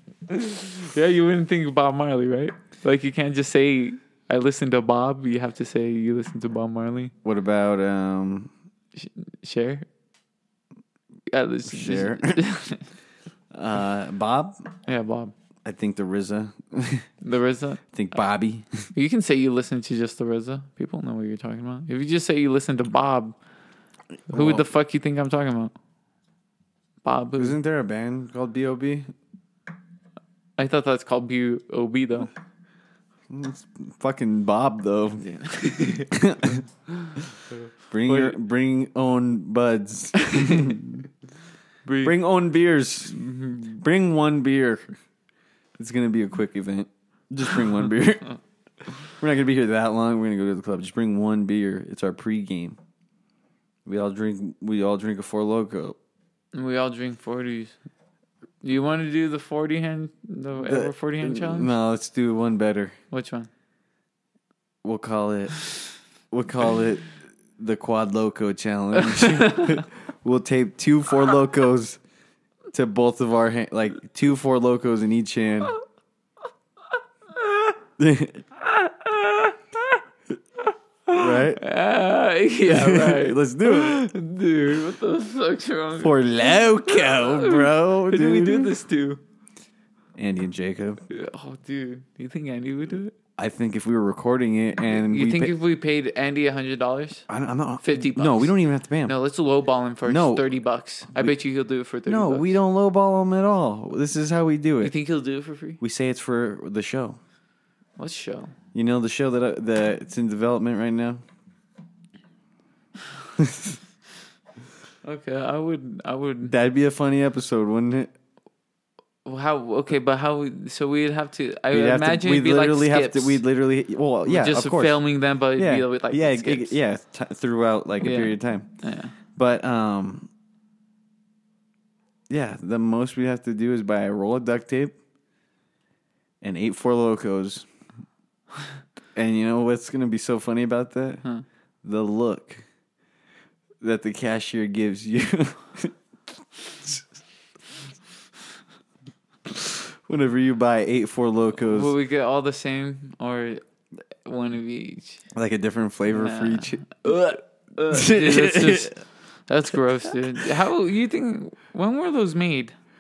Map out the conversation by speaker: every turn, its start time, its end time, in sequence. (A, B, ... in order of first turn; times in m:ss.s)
0:00.3-0:07.1 A
0:07.2-0:08.5 B
0:09.0-0:09.9 A
0:11.3-0:12.9 A
0:11.7-0:12.4 B
0:13.5-0:14.6 B
0:14.9-0:15.3 A
0:15.6-0:17.1 B
0:17.2-0:17.8 A
0:17.9-0:18.8 B
0:18.9-0:23.4 A
0:24.3-0:24.6 B
0:24.3-0:25.7 A
0:27.0-0:27.6 A
0:27.4-0:29.1 B
0:30.6-0:32.3 A
0:33.3-0:35.2 B
0:35.2-0:36.1 A
0:35.8-0:36.6 B
0:37.0-0:38.4 A
0:37.9-0:41.0 B
0:40.2-0:40.8 A
0:41.8-0:42.2 A
0:42.0-0:43.2 B
0:43.1-0:43.8 A
0:43.8-0:45.0 B
0:45.8-0:48.3 B
0:49.1-0:52.8 B
0:53.9-0:56.0 B
0:56.5-0:57.8 A
0:58.6-1:01.7 A
1:00.6-1:03.0 B
1:03.1-1:03.5 A
1:04.8-1:05.6 B
1:06.3-1:12.0 B
1:09.0-1:09.8 A
1:12.7-1:15.7 B
1:17.4-1:17.7 A
1:18.0-1:18.4 B
1:18.6-1:20.0 A
1:21.1-1:29.2 A
1:21.2-1:21.6 B
1:22.7-1:24.0 B
1:26.0-1:28.7 B
1:30.2-1:31.0 B
1:31.1-1:33.2 A
1:33.4-1:35.5 B
1:34.8-1:37.3 A
1:37.3-1:39.2 B
1:37.8-1:42.6 A
1:40.0-1:40.4 B
1:42.1-1:44.9 B
1:44.8-1:45.8 A
1:45.8-1:47.2 B
1:48.0-1:48.5 A
1:48.7-1:51.2 B
1:53.4-1:53.8 B
1:55.0-1:56.6 A
1:56.5-1:58.1 B
1:59.2-2:03.4 A
2:01.7-2:05.0 B
2:04.3-2:06.8 A
2:05.6-2:08.7 B
2:08.0-2:09.2 A
2:09.4-2:10.3 B
2:12.3-2:15.0 B
2:16.4-2:17.7 B
2:19.2-2:21.2 B
2:21.8-2:22.6 B
2:23.8-2:26.0 B
2:29.5-2:31.9 B
2:31.6-2:33.6 A
2:34.3-2:35.2 A
2:35.3-2:39.0 B
2:36.1-2:42.8 A